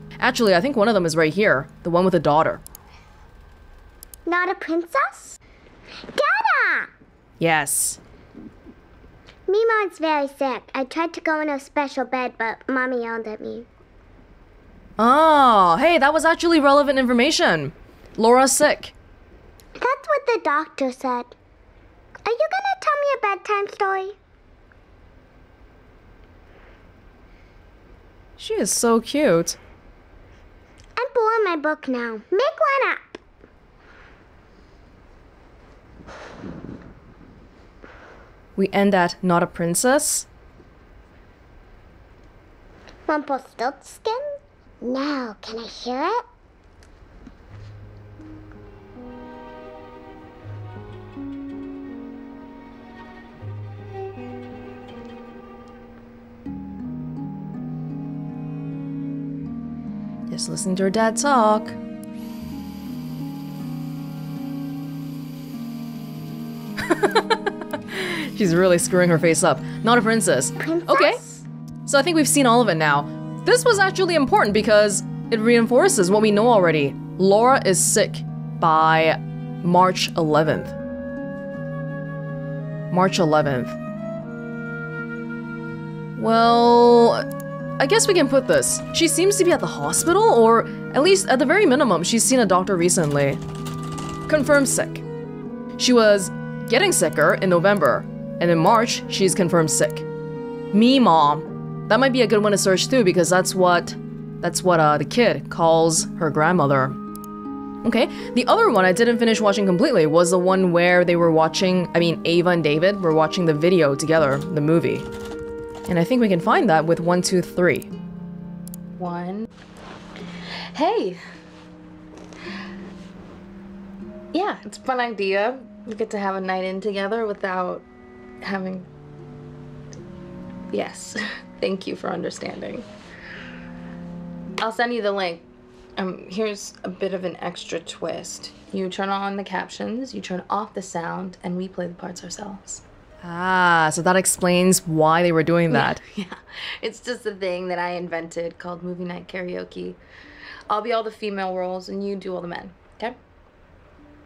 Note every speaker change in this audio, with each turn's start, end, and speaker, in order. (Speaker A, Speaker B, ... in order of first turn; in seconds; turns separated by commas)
Speaker A: 0.2-2.6, Speaker B: 4.3-5.4, Speaker B: 6.1-6.9, Speaker A: 7.4-8.0, Speaker B: 9.5-13.7, Speaker A: 15.0-18.9, Speaker B: 19.8-21.3, Speaker B: 22.2-24.1, Speaker A: 28.4-29.6, Speaker B: 31.0-33.2, Speaker A: 38.6-40.3, Speaker B: 43.1-44.2, Speaker B: 44.8-46.2, Speaker A: 60.3-61.8, Speaker A: 66.8-71.2, Speaker B: 70.6-71.4, Speaker A: 71.8-80.7, Speaker A: 82.9-83.8, Speaker A: 86.2-87.2, Speaker A: 87.8-93.4, Speaker A: 94.3-95.0, Speaker A: 95.8-100.0, Speaker A: 100.7-107.0, Speaker A: 107.8-115.1, Speaker A: 115.9-117.9, Speaker C: 119.0-119.5, Speaker C: 120.7-121.2, Speaker C: 124.3-127.8, Speaker C: 128.4-128.9, Speaker C: 130.7-132.8, Speaker C: 134.6-135.4, Speaker C: 136.0-142.8, Speaker A: 143.2-146.0, Speaker C: 145.7-150.0, Speaker C: 150.7-153.2